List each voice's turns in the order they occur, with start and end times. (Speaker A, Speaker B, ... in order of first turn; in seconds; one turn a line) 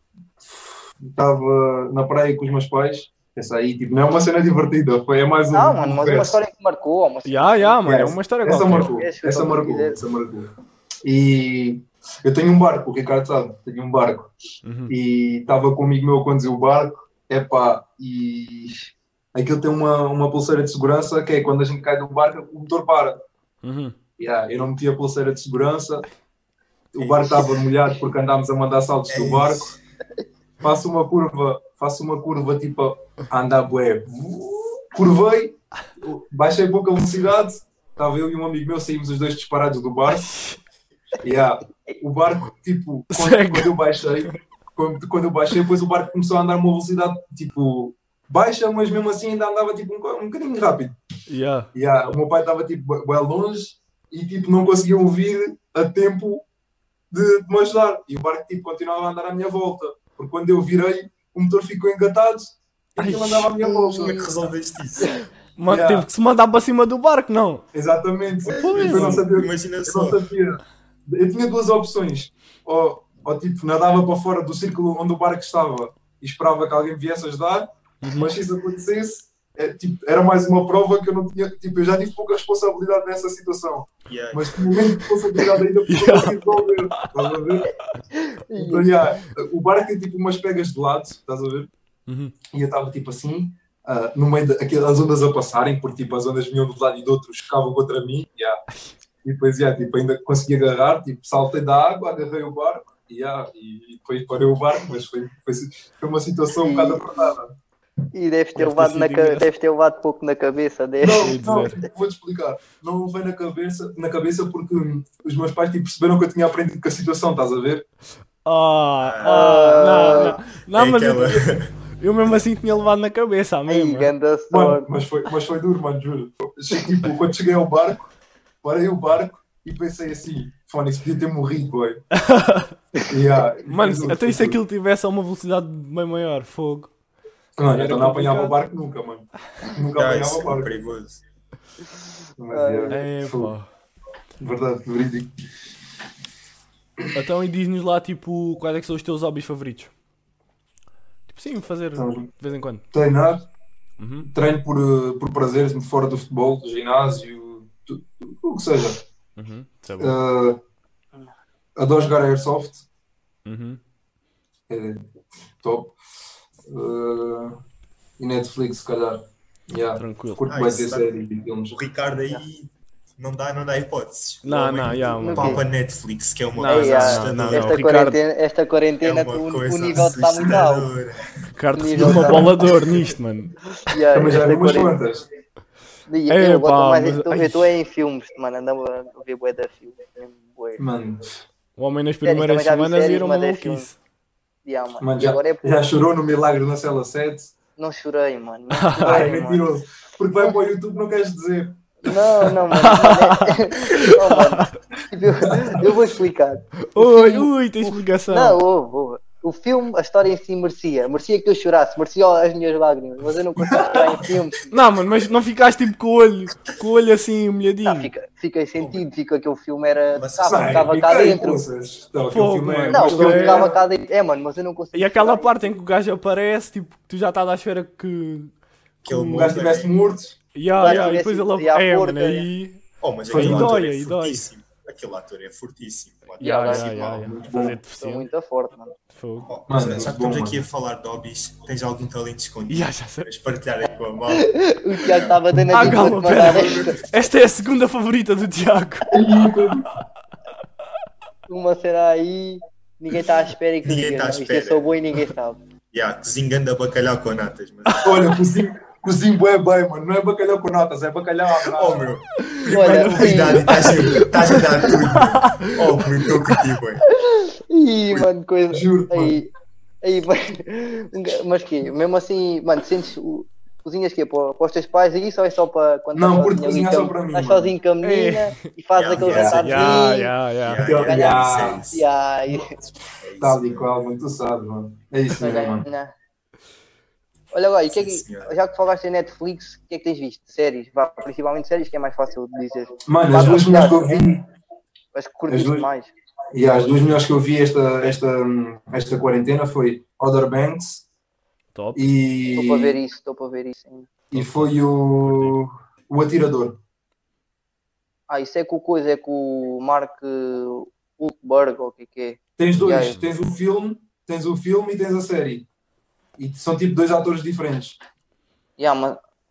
Speaker A: 0.5-6.4
Speaker B: 5.5-7.8
Speaker C: 7.3-8.9
Speaker A: 7.8-10.5
Speaker B: 8.6-10.0
Speaker A: 11.0-14.3
Speaker C: 14.6-14.9
Speaker A: 14.9-23.2
Speaker C: 23.6-24.0
Speaker A: 24.2-26.1
Speaker A: 26.9-29.8
Speaker D: 27.0-27.6
Speaker D: 29.1-29.8
Speaker A: 30.6-40.4
Speaker A: 41.2-51.0
Speaker C: 43.1-43.7
Speaker C: 51.3-51.7
Speaker A: 51.7-56.5
Speaker A: 57.1-64.5
Speaker C: 63.0-63.5
Speaker B: 63.6-64.2
Speaker D: 63.9-65.2
Speaker C: 65.6-67.7
Speaker A: 65.7-66.1
Speaker A: 67.7-87.7
Speaker C: 68.5-69.2
Speaker D: 68.7-70.2
Speaker C: 78.0-78.3
Speaker D: 84.1-84.8
Speaker C: 85.9-87.3
Speaker B: 88.1-88.9
Speaker A: 88.5-91.7
Speaker C: 92.1-92.3
Speaker A: 92.5-98.6
Speaker A: 99.2-107.5
Speaker B: 106.6-107.3
Speaker B: 108.1-111.4
Speaker C: 108.6-109.5
Speaker A: 111.0-117.8
Speaker C: 111.1-111.8
Speaker C: 118.5-124.1
Speaker D: 119.0-121.8
Speaker B: 119.2-120.4
Speaker B: 123.7-124.9
Speaker A: 124.5-128.1
Speaker A: 128.6-132.0
Speaker C: 132.1-132.7
Speaker A: 133.1-134.6
Speaker C: 133.7-136.9
Speaker A: 137.6-140.7
Speaker C: 137.7-138.6
Speaker D: 139.9-141.2
Speaker A: 142.4-143.5
Speaker B: 142.5-143.0
Speaker C: 142.9-143.7
Speaker A: 144.4-145.3
Speaker C: 147.1-149.9
Speaker C: 151.3-152.8
Speaker A: 152.0-152.3
Speaker A: 152.9-153.5
Speaker C: 154.0-154.3
Speaker A: 154.2-159.0
Speaker C: 159.4-160.1
Speaker A: 160.0-160.6
Speaker A: 161.8-162.9
Speaker C: 163.5-163.8
Speaker A: 164.7-165.1
Speaker A: 165.6-166.0
Speaker A: 166.7-167.6
Speaker A: 168.2-171.8
Speaker C: 170.0-170.4
Speaker D: 170.5-171.1
Speaker D: 171.7-177.8
Speaker C: 174.4-175.7
Speaker B: 175.2-175.6
Speaker C: 176.6-178.2
Speaker B: 176.7-180.9
Speaker D: 179.0-181.3
Speaker C: 181.6-183.6
Speaker B: 181.8-182.6
Speaker A: 182.0-182.6
Speaker B: 183.8-185.0
Speaker A: 184.1-185.2
Speaker B: 186.1-190.8
Speaker C: 186.3-187.7
Speaker A: 190.8-191.4
Speaker C: 191.8-193.9
Speaker B: 192.2-193.9
Speaker B: 194.7-195.9
Speaker A: 195.0-197.5
Speaker B: 197.8-199.7
Speaker C: 198.7-199.3
Speaker A: 199.0-201.8
Speaker B: 202.0-214.8
Speaker C: 202.5-204.7
Speaker A: 205.4-205.8
Speaker C: 206.9-208.6
Speaker A: 213.6-214.1
Speaker C: 214.7-218.1
Speaker B: 217.8-221.6
Speaker D: 218.8-219.1
Speaker D: 220.2-221.2
Speaker A: 220.5-223.8
Speaker C: 222.3-223.7
Speaker B: 222.9-225.5
Speaker C: 224.9-228.5
Speaker D: 229.1-230.0
Speaker A: 229.1-230.4
Speaker C: 230.6-234.5
Speaker B: 230.8-232.5
Speaker D: 233.0-237.0
Speaker A: 233.3-233.8
Speaker B: 236.4-237.3
Speaker C: 236.4-238.3
Speaker A: 237.2-237.8
Speaker B: 238.0-238.9
Speaker C: 239.2-239.5
Speaker D: 239.4-247.2
Speaker A: 239.7-240.6
Speaker C: 242.7-243.3
Speaker B: 244.3-247.0
Speaker C: 245.7-249.1
Speaker A: 249.1-249.9
Speaker B: 251.5-255.6
Speaker D: 253.8-254.9
Speaker D: 255.9-258.4
Speaker A: 258.0-262.1
Speaker D: 261.7-267.1
Speaker C: 262.5-265.7
Speaker B: 262.7-264.1
Speaker B: 267.1-269.5
Speaker A: 268.7-269.4
Speaker B: 270.0-280.3
Speaker A: 276.1-277.7
Speaker C: 278.0-278.6
Speaker D: 279.0-282.1
Speaker A: 279.2-279.6
Speaker C: 279.4-280.8
Speaker A: 280.8-281.9
Speaker B: 281.0-282.7
Speaker D: 283.2-283.9
Speaker A: 283.4-285.9
Speaker B: 285.4-286.1
Speaker B: 287.5-294.2
Speaker D: 287.9-288.6
Speaker A: 293.1-294.4
Speaker B: 295.1-296.1
Speaker A: 295.5-295.9
Speaker A: 296.5-301.1
Speaker C: 301.8-302.1
Speaker A: 301.9-303.0
Speaker B: 302.6-304.1
Speaker A: 304.3-306.8
Speaker C: 304.3-305.6
Speaker B: 308.3-313.2
Speaker A: 312.6-315.7
Speaker A: 316.4-318.0
Speaker B: 318.8-319.2